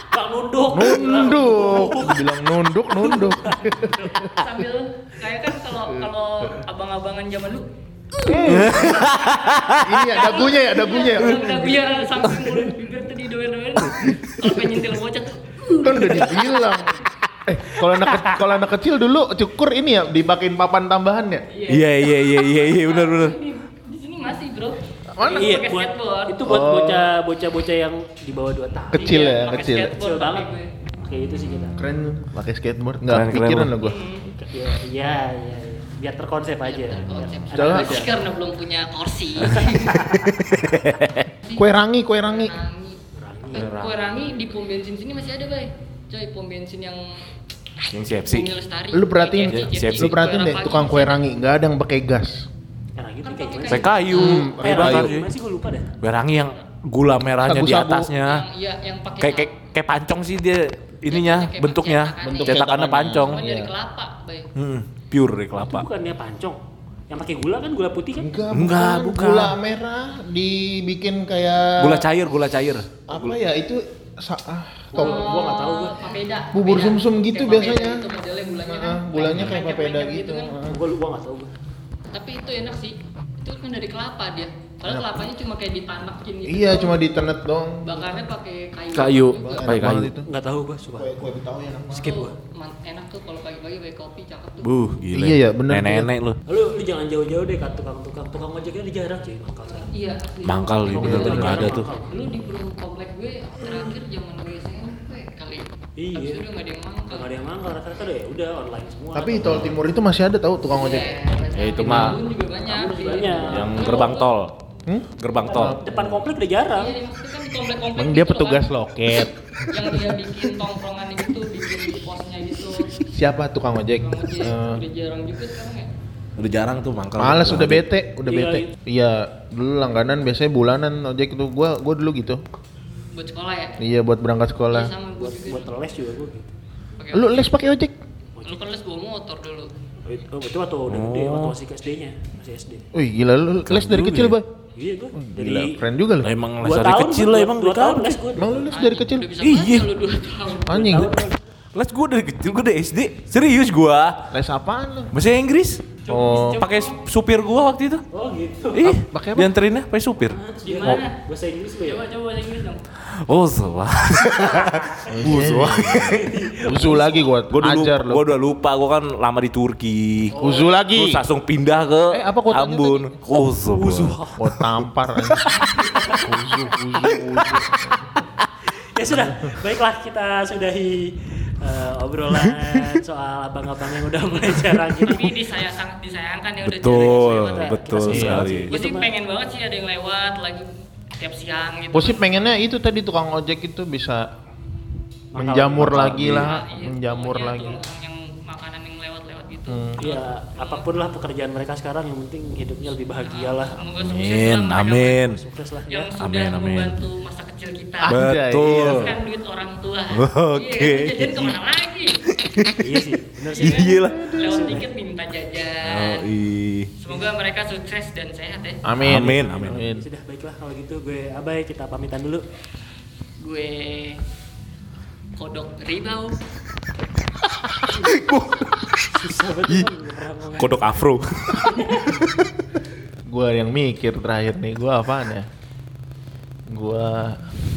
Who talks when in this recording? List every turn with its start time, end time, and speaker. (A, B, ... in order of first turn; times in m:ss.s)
0:00.1-0:02.3 A
0:00.7-0:04.3 B
0:02.9-0:04.1 A
0:04.2-0:07.7 C
0:08.2-0:09.2 B
0:08.3-0:16.6 C
0:08.4-0:09.8 D
0:09.8-0:11.7 B
0:15.8-0:21.5 B
0:17.8-0:18.5 A
0:21.5-0:26.4 C
0:21.7-0:23.4 D
0:25.1-0:25.6 B
0:25.3-0:29.3 A
0:26.4-0:27.1 B
0:28.9-0:29.9 B
0:29.0-0:30.7 C
0:29.9-0:30.5 A
0:31.0-0:31.8 A
0:31.8-0:34.0 B
0:33.1-0:33.7 D
0:33.8-0:34.2 C
0:34.3-0:38.1 A
0:36.6-0:40.2 C
0:37.0-0:37.2 D
0:37.5-0:38.1 B
0:39.4-0:41.3 D
0:39.7-0:40.3 A
0:41.6-0:42.5 B
0:42.2-0:43.0 C
0:43.1-0:43.7 A
0:43.5-0:47.0 C
0:43.5-0:43.9 D
0:47.9-0:48.5 D
0:48.3-0:51.2 C
0:48.9-0:52.5 B
0:49.5-0:50.1 D
0:53.0-0:55.9 A
0:53.2-0:54.9 C
0:53.6-0:55.3 D
0:54.1-0:55.1 B
0:56.0-0:58.4 D
0:57.4-0:58.1 B
0:58.2-0:59.5 C
0:59.2-1:03.4 D
1:01.1-1:04.5 C
1:02.2-1:03.7 B
1:04.5-1:05.9 D
1:05.7-1:06.6 A
1:07.1-1:08.3 A
1:08.1-1:12.0 B
1:08.5-1:09.6 D
1:11.8-1:13.3 D
1:13.1-1:15.2 B
1:14.9-1:16.0 A
1:14.9-1:20.5 C
1:16.5-1:18.0 B
1:18.6-1:20.8 B
1:20.7-1:21.5 A
1:22.1-1:27.0 C
1:24.8-1:25.2 B
1:26.4-1:28.1 B
1:27.8-1:29.6 C
1:28.9-1:30.1 D
1:29.4-1:30.3 B
1:30.2-1:31.1 A
1:30.9-1:32.2 B
1:31.9-1:32.3 A
1:32.0-1:34.7 C
1:34.6-1:36.4 D
1:35.1-1:36.1 B
1:36.5-1:39.9 A
1:39.8-1:47.3 C
1:40.4-1:41.9 D
1:40.9-1:41.7 B
1:40.9-1:42.2 A
1:46.0-1:46.4 A
1:47.1-1:49.7 A
1:49.1-1:51.1 B
1:50.7-1:54.3 C
1:51.5-1:52.2 D
1:51.8-1:52.1 A
1:52.7-1:54.2 A
1:53.5-1:54.6 D
1:54.8-1:55.8 B
1:55.2-1:56.2 D
1:55.5-1:57.0 A
1:56.7-1:58.7 C
1:58.0-2:00.4 B
1:59.7-2:03.1 C
2:03.1-2:04.8 B
2:04.0-2:05.9 C
2:06.4-2:07.8 D
2:07.2-2:12.4 B
2:08.2-2:08.7 A
2:13.1-2:13.8 C
2:13.8-2:14.9 B
2:14.7-2:15.7 C
2:15.2-2:16.5 A
2:17.0-2:17.5 C
2:17.1-2:18.0 B
2:18.4-2:18.6 A
2:18.4-2:19.7 C
2:20.0-2:22.8 A
2:20.9-2:21.6 D
2:22.9-2:24.5 B
2:23.7-2:24.4 D
2:24.8-2:25.8 A
2:25.1-2:26.3 B
2:26.2-2:28.2 D
2:26.6-2:28.7 A
2:28.3-2:29.4 B
2:28.7-2:31.0 C
2:29.4-2:29.9 D
2:30.7-2:31.2 B
2:30.7-2:31.4 A
2:31.7-2:34.3 D
2:34.3-2:35.1 B
2:35.1-2:35.9 D
2:36.0-2:37.0 C
2:36.1-2:36.6 B
2:36.6-2:38.0 D
2:38.1-2:38.9 A
2:38.7-2:41.0 D
2:38.8-2:39.5 B
2:40.3-2:42.1 A
2:40.6-2:41.2 C
2:41.8-2:42.8 C
2:43.1-2:46.9 D
2:45.1-2:48.3 B
2:46.1-2:47.2 A
2:47.5-2:50.3 D
2:50.3-2:50.7 A
2:50.4-2:51.2 B
2:50.9-2:54.7 D
2:52.1-2:53.1 B
2:53.7-2:54.4 A
2:54.4-2:55.5 B
2:55.8-2:56.3 A
2:56.1-2:58.0 B
2:57.0-2:57.4 D
2:58.8-3:05.4 A
2:59.2-2:59.6 B
3:04.9-3:12.4 C
3:06.6-3:08.7 D
3:07.2-3:09.1 A
3:08.1-3:08.5 B
3:11.9-3:14.3 B
3:15.3-3:16.4 A
3:15.3-3:17.8 B
3:15.8-3:16.5 D
3:16.2-3:20.9 C
3:19.7-3:20.0 B
3:20.0-3:23.9 A
3:23.1-3:25.4 C
3:24.0-3:25.4 D
3:25.2-3:26.1 A
3:25.9-3:32.2 C
3:26.2-3:27.0 D
3:28.0-3:29.1 B
3:28.0-3:29.1 D
3:30.1-3:31.6 D
3:32.3-3:32.9 D
3:32.8-3:34.8 A
3:33.5-3:36.3 C
3:33.6-3:34.3 D
3:34.1-3:34.8 B
3:35.8-3:36.9 D
3:37.0-3:38.8 C
3:38.8-3:40.0 B
3:39.0-3:39.7 D
3:39.1-3:42.4 A
3:43.4-3:44.2 C
3:45.4-3:46.4 C
3:47.6-3:49.0 D
3:49.1-3:50.9 A
3:50.6-3:52.5 D
3:51.6-3:52.1 A
3:53.3-3:55.5 B
3:56.7-3:57.4 B